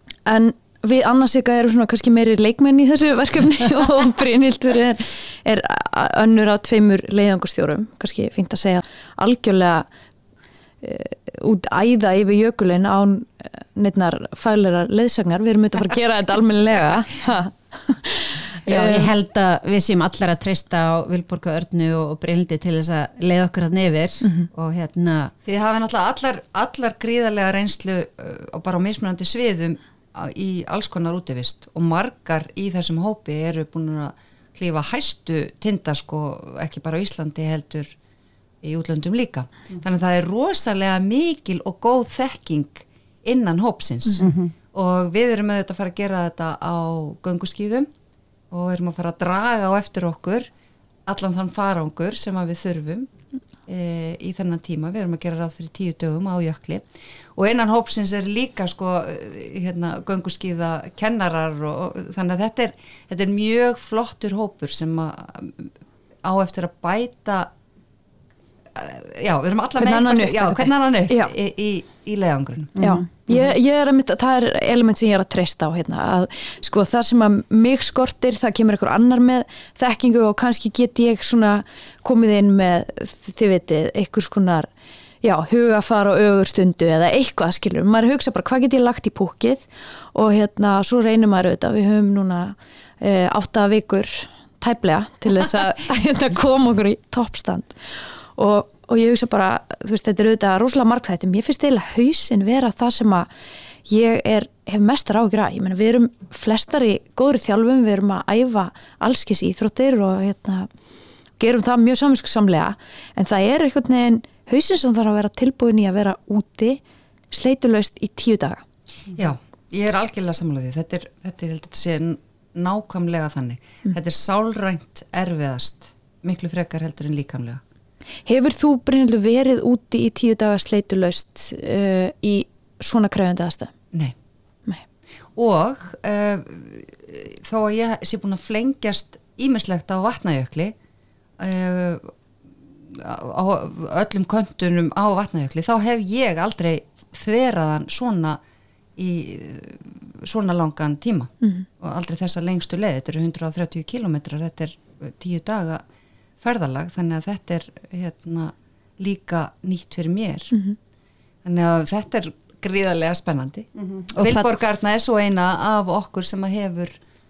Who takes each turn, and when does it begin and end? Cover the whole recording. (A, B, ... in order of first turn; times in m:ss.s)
0:00.3-0:09.9 A
0:10.8-0:19.1 A
0:18.7-0:25.3 B
0:24.2-0:24.5 A
0:25.5-0:38.0 C
0:38.6-0:47.9 C
0:44.2-0:44.5 B
0:48.5-0:50.5 C
0:51.1-0:53.1 C
0:53.7-1:05.7 C
1:06.2-1:07.5 C
1:08.7-1:12.8 C
1:09.8-1:11.3 A
1:12.8-1:13.0 B
1:12.8-1:24.7 A
1:25.2-1:37.8 A
1:38.4-1:43.3 A
1:43.9-1:50.7 A
1:51.4-1:58.6 A
1:59.2-2:07.6 C
2:08.3-2:13.7 A
2:15.4-2:20.8 C
2:21.4-2:22.1 C
2:22.9-2:28.4 C
2:29.0-2:35.8 C
2:36.4-2:40.5 C
2:40.5-2:40.8 A
2:41.4-2:47.0 C
2:43.8-2:44.5 B